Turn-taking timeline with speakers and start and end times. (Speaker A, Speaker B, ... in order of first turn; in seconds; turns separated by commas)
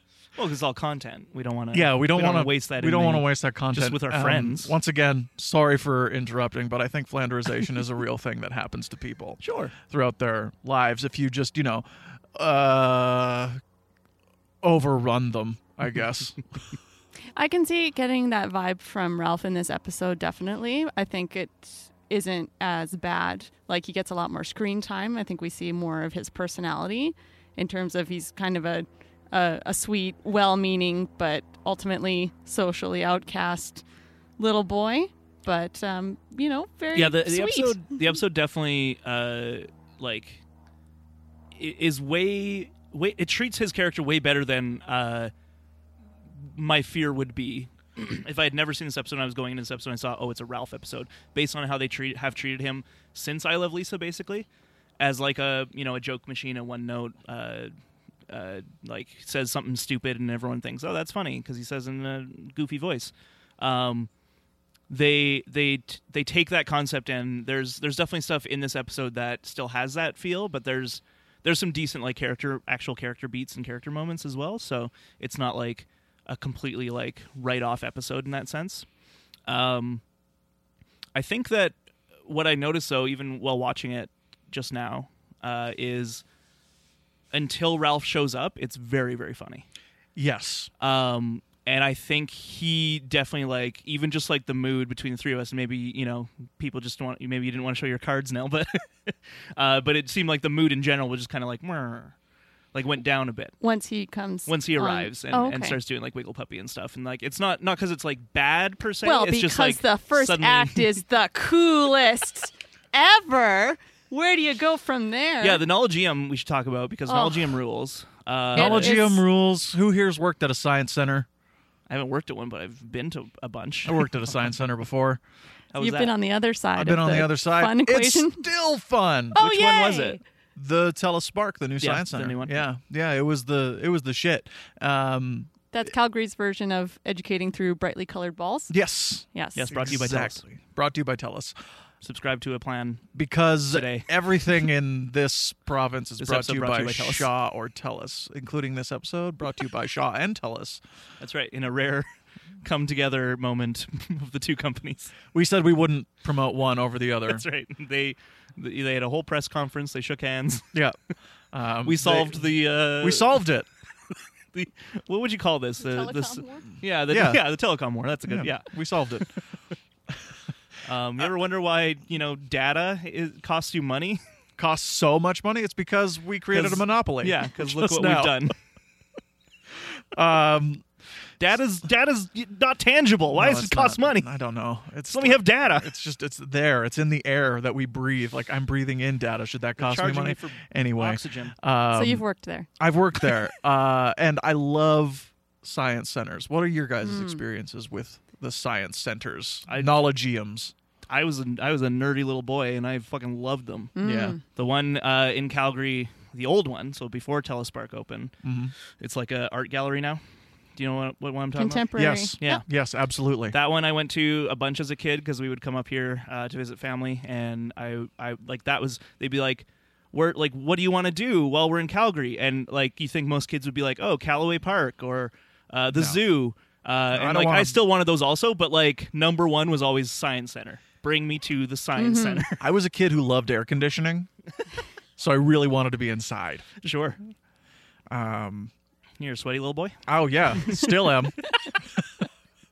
Speaker A: 0.4-4.8, Speaker B: 1.7-13.6, Speaker A: 9.4-9.7, Speaker B: 14.6-16.4, Speaker C: 17.4-33.8, Speaker C: 34.4-37.9, Speaker A: 36.9-40.4, Speaker A: 41.5-45.3, Speaker A: 46.4-54.5, Speaker A: 55.0-57.7, Speaker A: 58.3-64.1, Speaker A: 64.9-78.9, Speaker A: 79.5-80.0, Speaker A: 81.2-86.2, Speaker A: 87.3-89.7, Speaker B: 90.2-90.7, Speaker A: 90.8-102.2, Speaker A: 102.7-103.5, Speaker C: 103.6-105.8, Speaker A: 104.5-110.9, Speaker C: 109.0-115.6, Speaker A: 115.4-119.0, Speaker C: 117.1-117.5, Speaker C: 118.6-119.2, Speaker B: 118.6-121.3, Speaker A: 121.9-124.1, Speaker B: 123.9-125.2, Speaker A: 125.7-126.1, Speaker C: 125.8-128.4, Speaker B: 126.8-129.4, Speaker C: 129.3-130.2, Speaker A: 129.4-130.2, Speaker B: 130.6-135.5, Speaker A: 131.8-132.6, Speaker C: 135.7-138.8, Speaker B: 138.7-141.6, Speaker C: 139.3-139.7, Speaker A: 139.6-140.4, Speaker A: 142.0-143.1, Speaker B: 143.1-150.8, Speaker A: 143.7-144.1, Speaker A: 146.2-147.3, Speaker A: 151.2-152.1, Speaker A: 152.6-155.2, Speaker B: 155.3-157.4, Speaker A: 157.3-160.7, Speaker B: 161.5-163.7, Speaker A: 161.8-163.4, Speaker A: 164.5-169.3, Speaker C: 165.8-166.7, Speaker B: 167.1-167.4, Speaker B: 168.3-169.3, Speaker A: 170.8-174.2, Speaker B: 174.6-178.4, Speaker A: 176.5-178.6, Speaker B: 180.1-180.8, Speaker A: 181.4-184.3, Speaker B: 183.3-192.2, Speaker A: 185.1-185.9, Speaker A: 189.8-191.6, Speaker C: 191.9-192.7, Speaker B: 192.8-200.7, Speaker C: 197.0-197.4, Speaker A: 199.7-200.0, Speaker A: 201.1-203.9, Speaker C: 204.0-204.4, Speaker B: 204.0-204.4, Speaker A: 204.5-208.3, Speaker B: 208.4-208.7, Speaker A: 209.0-210.2, Speaker A: 210.8-211.9, Speaker C: 211.6-212.6, Speaker B: 212.0-213.6, Speaker A: 212.4-212.6, Speaker A: 213.5-232.6, Speaker B: 225.9-226.2, Speaker B: 227.1-227.8, Speaker C: 232.0-232.5, Speaker B: 232.6-234.3, Speaker B: 235.2-236.7, Speaker A: 236.8-237.2, Speaker B: 238.1-238.7, Speaker A: 239.2-240.0, Speaker B: 240.1-242.0